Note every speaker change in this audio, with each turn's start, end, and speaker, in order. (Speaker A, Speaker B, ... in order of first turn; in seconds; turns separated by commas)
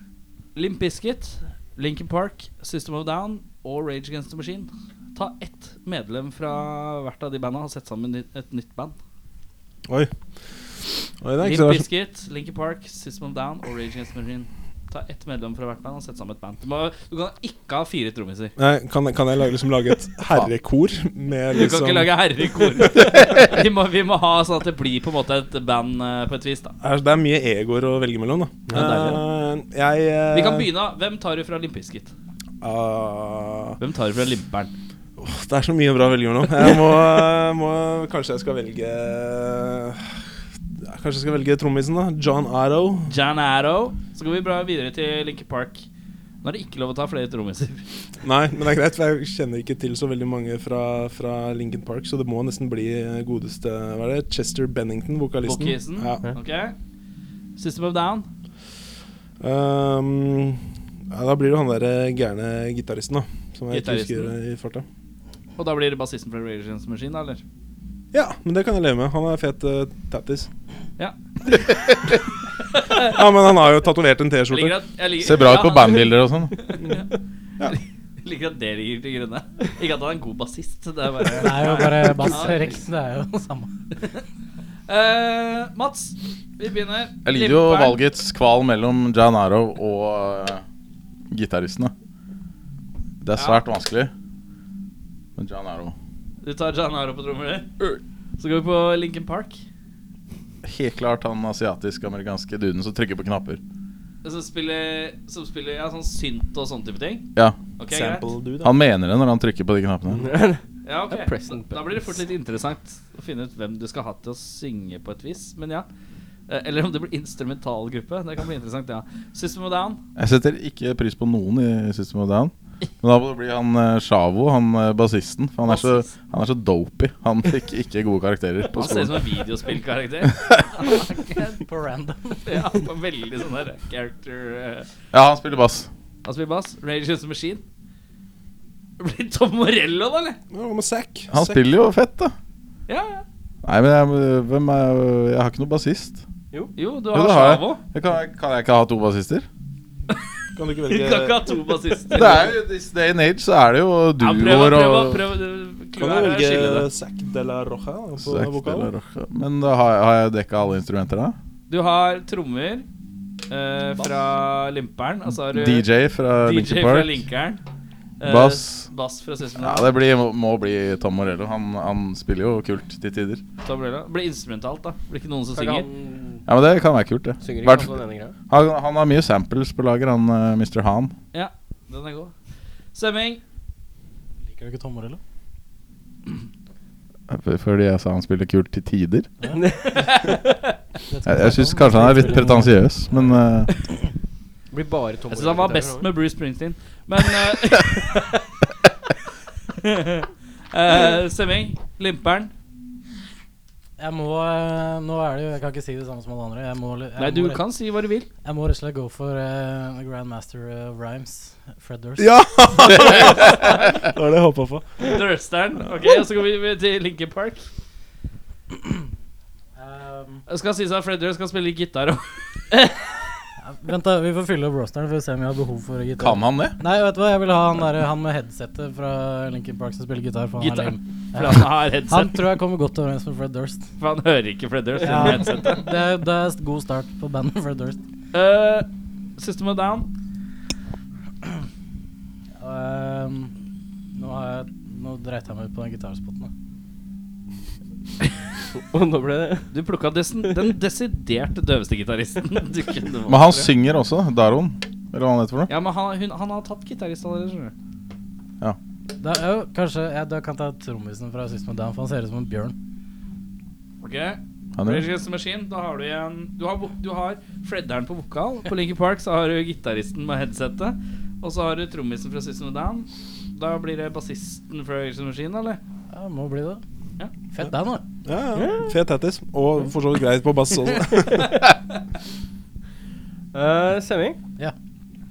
Speaker A: 0.5-8.9, Speaker B: 11.2-11.8, Speaker A: 11.4-18.5, Speaker B: 18.6-23.4, Speaker A: 21.5-26.7, Speaker B: 26.8-30.7, Speaker C: 28.7-29.2, Speaker A: 28.7-29.2, Speaker A: 30.3-32.1, Speaker B: 32.6-33.8, Speaker A: 33.8-34.7, Speaker B: 35.2-40.1, Speaker B: 40.8-43.1, Speaker A: 43.1-45.9, Speaker A: 46.4-47.9, Speaker B: 48.2-56.3, Speaker A: 55.4-56.7, Speaker A: 57.6-58.3, Speaker B: 59.4-64.8, Speaker A: 63.7-64.3, Speaker A: 65.6-67.4, Speaker B: 68.1-70.5, Speaker A: 72.7-73.2, Speaker B: 73.0-74.8, Speaker A: 74.5-77.1, Speaker D: 75.2-76.5, Speaker A: 77.7-82.7, Speaker E: 81.4-83.8, Speaker A: 84.9-88.0, Speaker D: 87.2-90.6, Speaker D: 91.3-91.9, Speaker D: 93.2-94.1, Speaker A: 93.3-93.6, Speaker D: 95.4-95.9, Speaker A: 96.4-99.6, Speaker D: 100.6-103.6, Speaker A: 104.2-107.3, Speaker A: 107.8-108.3, Speaker B: 107.9-108.8, Speaker D: 108.6-110.2, Speaker C: 110.2-111.9, Speaker A: 110.8-115.9, Speaker A: 116.5-120.0, Speaker D: 120.2-129.3, Speaker A: 125.6-126.1, Speaker A: 128.7-131.6, Speaker E: 131.6-132.6, Speaker A: 132.5-134.9, Speaker D: 135.1-135.9, Speaker A: 136.2-137.6, Speaker A: 139.0-140.4, Speaker B: 140.5-141.6, Speaker D: 141.3-142.3, Speaker A: 142.9-143.2, Speaker D: 143.6-146.2, Speaker A: 146.8-147.8, Speaker D: 147.1-149.5, Speaker B: 150.5-151.4, Speaker A: 150.9-152.6, Speaker D: 152.1-155.3, Speaker A: 154.2-156.9, Speaker B: 156.0-158.9, Speaker D: 158.2-161.3, Speaker A: 161.7-162.8, Speaker A: 163.5-165.8, Speaker D: 165.5-167.2, Speaker A: 166.4-167.6, Speaker A: 168.2-169.9, Speaker D: 168.2-168.8, Speaker D: 169.6-173.4, Speaker A: 173.6-175.9, Speaker C: 175.5-176.4, Speaker D: 176.5-177.9, Speaker C: 177.4-178.3, Speaker D: 178.5-181.1, Speaker A: 181.3-182.3, Speaker A: 182.9-183.4, Speaker E: 184.5-185.2, Speaker D: 187.3-189.3, Speaker C: 189.5-190.6, Speaker A: 189.9-190.4, Speaker E: 191.1-192.9, Speaker D: 191.2-193.7, Speaker C: 194.7-196.1, Speaker A: 195.3-198.3, Speaker A: 199.8-202.5, Speaker E: 204.0-207.6, Speaker A: 207.2-208.3, Speaker E: 208.4-212.3, Speaker B: 212.2-215.1, Speaker A: 212.9-213.9, Speaker A: 215.0-217.7, Speaker E: 219.8-220.4, Speaker A: 220.5-222.9, Speaker E: 223.6-233.9, Speaker D: 226.2-226.8, Speaker A: 230.6-232.4, Speaker A: 234.0-235.9, Speaker E: 235.0-238.0, Speaker A: 238.3-238.8, Speaker A: 239.4-240.1, Speaker E: 242.6-243.5, Speaker E: 244.2-246.5, Speaker C: 248.7-249.7, Speaker A: 249.7-253.7, Speaker D: 253.3-255.7, Speaker A: 255.7-257.7, Speaker E: 259.2-262.7, Speaker A: 264.0-275.8, Speaker D: 264.8-265.1, Speaker E: 276.1-276.8, Speaker E: 277.5-278.0, Speaker B: 278.2-281.6, Speaker C: 278.5-278.9, Speaker C: 283.5-284.4